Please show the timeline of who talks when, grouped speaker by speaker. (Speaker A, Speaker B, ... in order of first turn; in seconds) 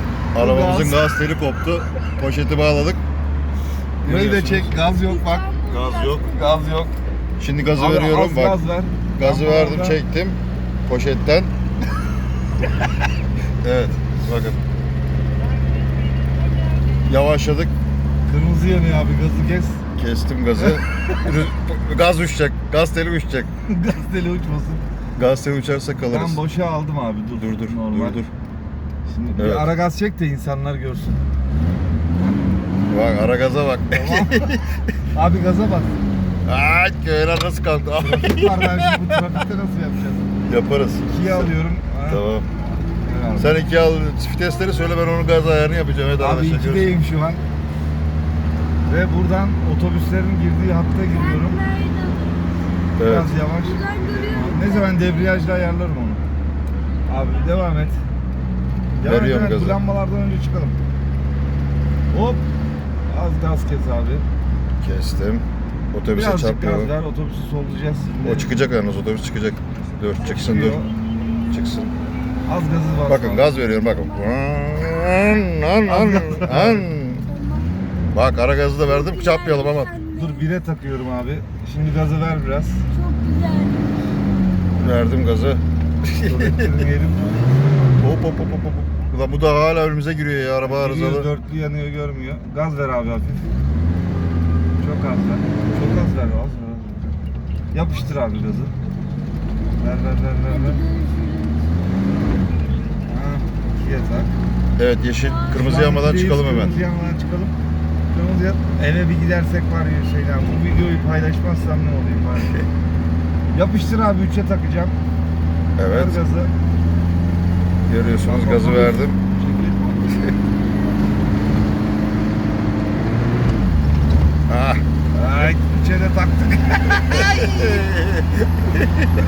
Speaker A: 0.3-3.0, 4.0-4.8, 5.7-6.4, 7.4-8.6, 9.2-11.5, 13.6-14.6, 17.0-17.7, 19.9-23.5, 25.2-26.4, 27.4-28.3, 29.4-29.7, 32.9-34.6, 36.5-39.2, 40.5-41.5, 42.1-42.5, 43.4-46.9, 53.0-53.5, 59.0-59.8, 64.8-66.9, 68.2-70.8, 71.5-71.9, 73.1-77.2, 78.1-79.9, 84.8-86.8, 88.0-91.3, 104.8-106.8, 115.8-116.2, 117.9-119.2, 124.5-124.8, 127.1-128.9
Speaker B: 0.3-1.0, 4.0-5.5, 6.3-6.9, 7.8-10.0, 18.3-19.8, 23.7-24.8, 26.1-28.2, 29.1-31.2, 33.9-34.5, 35.1-36.0, 38.0-40.3, 41.0-42.2, 42.9-43.6, 46.2-47.4, 48.8-51.6, 53.0-56.2, 57.1-58.0, 58.9-60.8, 62.1-62.4, 63.1-64.2, 66.1-68.5, 70.2-70.9, 72.5-73.5, 75.8-76.9, 80.1-82.9, 86.2-87.7, 90.6-93.5, 94.8-97.2, 97.7-98.7, 99.8-100.8, 103.0-104.3, 105.5-107.5, 108.1-112.6, 113.5-115.0, 115.9-116.5, 118.2-120.4, 125.1-127.8
Speaker C: 4.9-6.8, 51.0-52.5, 53.6-55.5, 74.0-74.3, 77.2-77.7, 78.9-80.5, 82.9-83.9, 100.5-101.8, 105.2-105.5